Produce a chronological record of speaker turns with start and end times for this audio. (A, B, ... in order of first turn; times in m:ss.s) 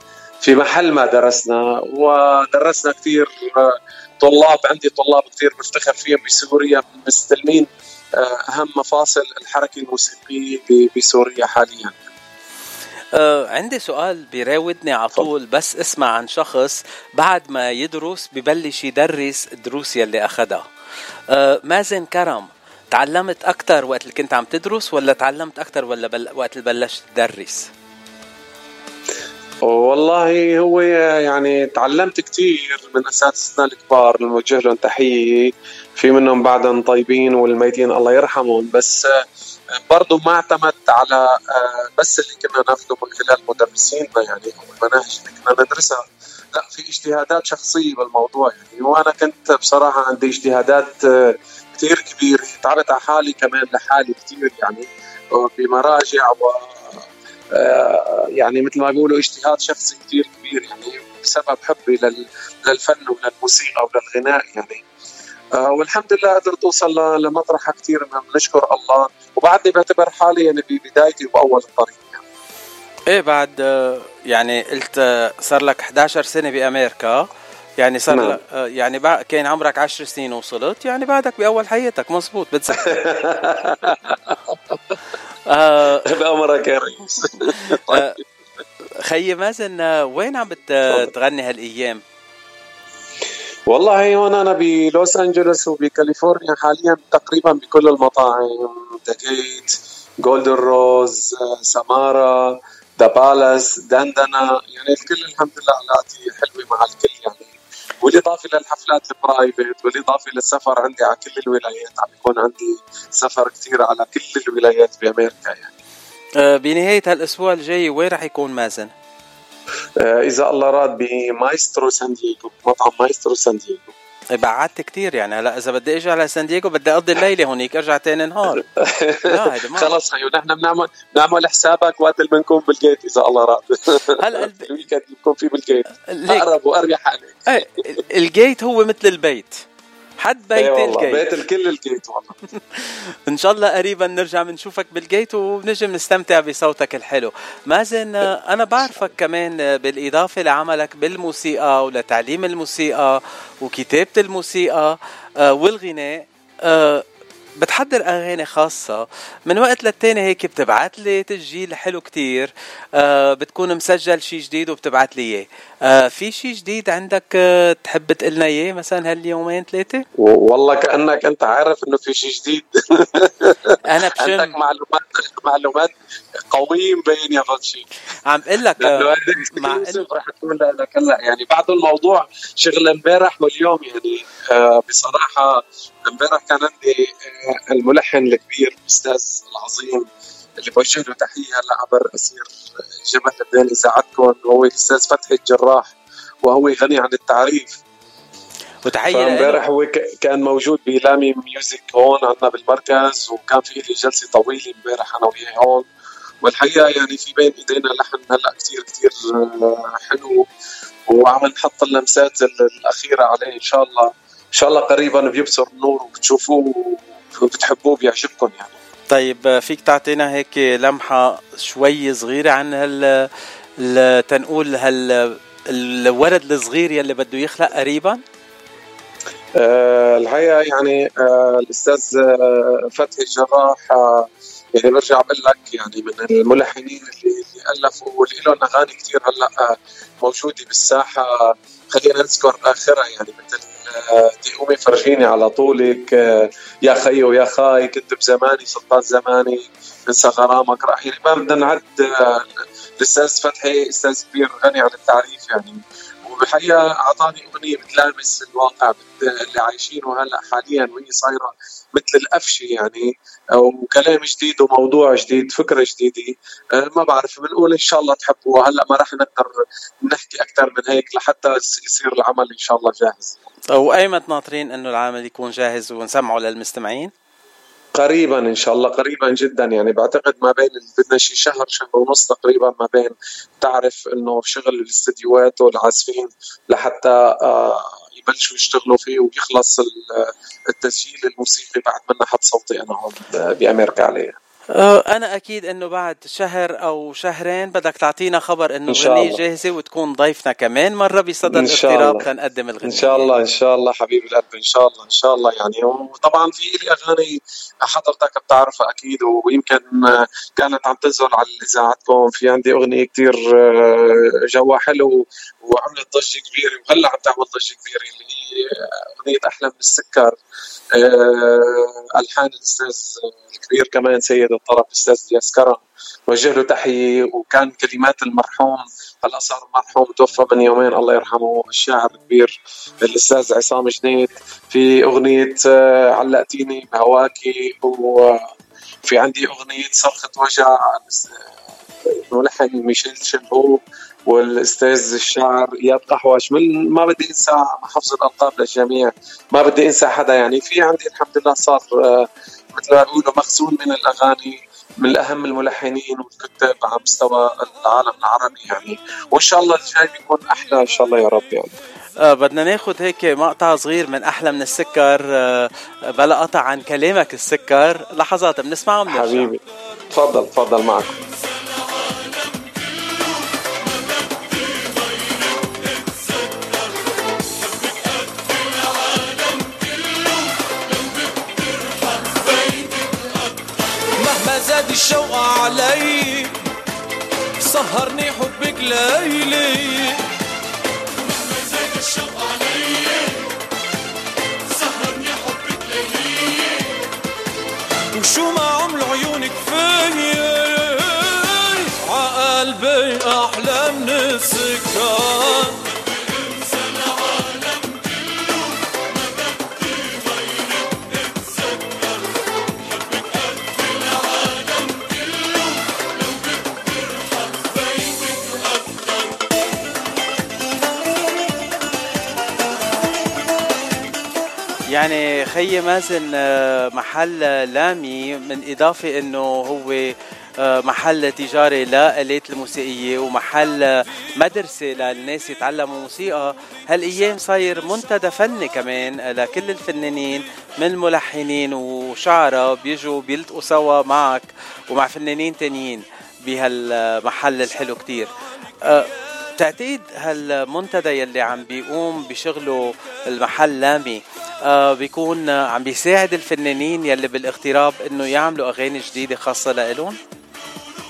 0:00.4-0:12.1 A
0:13.1-0:20.7 B
0:21.3-0:27.7 B
0:29.6-0:39.2 A
0:39.9-0:46.0 A
0:46.5-1:04.8 A
1:05.6-1:12.2 A
1:13.1-1:17.3 B
1:17.8-1:22.9 B
1:18.1-1:18.4 A
1:22.9-1:24.6 A
1:25.5-1:26.1 B
1:26.0-1:28.2 A
1:27.7-1:28.2 B
1:29.0-1:32.0 B
1:33.7-1:55.7 A
1:56.4-1:58.9 B
2:00.0-2:03.9 A
2:04.4-2:08.6 B
2:08.8-2:17.6 A
2:09.2-2:09.9 B
2:14.2-2:14.7 B
2:16.1-2:16.5 B
2:17.5-2:19.6 B
2:20.2-2:21.3 B
2:20.6-2:22.4 A
2:22.7-2:37.0 B
2:37.6-2:50.0 B
2:50.2-2:55.9 A
2:53.8-2:54.6 B
2:56.5-2:57.9 A
2:58.3-3:00.0 B
2:58.8-3:10.0 A
3:10.6-3:17.8 A
3:18.8-3:19.6 B
3:19.1-3:25.9 A
3:26.4-3:30.4 A
3:31.1-3:38.7 A
3:39.1-3:43.3 B
3:43.8-3:48.2 B
3:49.6-4:29.6 A
4:30.1-4:33.4 A
4:33.7-4:37.1 B
4:38.0-4:54.4 A
4:54.8-5:03.3 B
4:58.9-4:59.4 A
5:01.5-5:02.3 A
5:02.8-5:20.4 A
5:20.9-5:38.4 A
5:39.1-5:41.5 A
5:42.0-6:01.7 A
6:02.2-6:09.5 B
6:09.1-6:11.2 A
6:24.2-6:26.6 C
6:27.6-6:30.2 C
6:31.6-6:33.3 C
6:34.8-6:36.7 C
6:38.1-6:46.0 C
7:04.9-7:28.3 B
7:28.8-7:40.2 B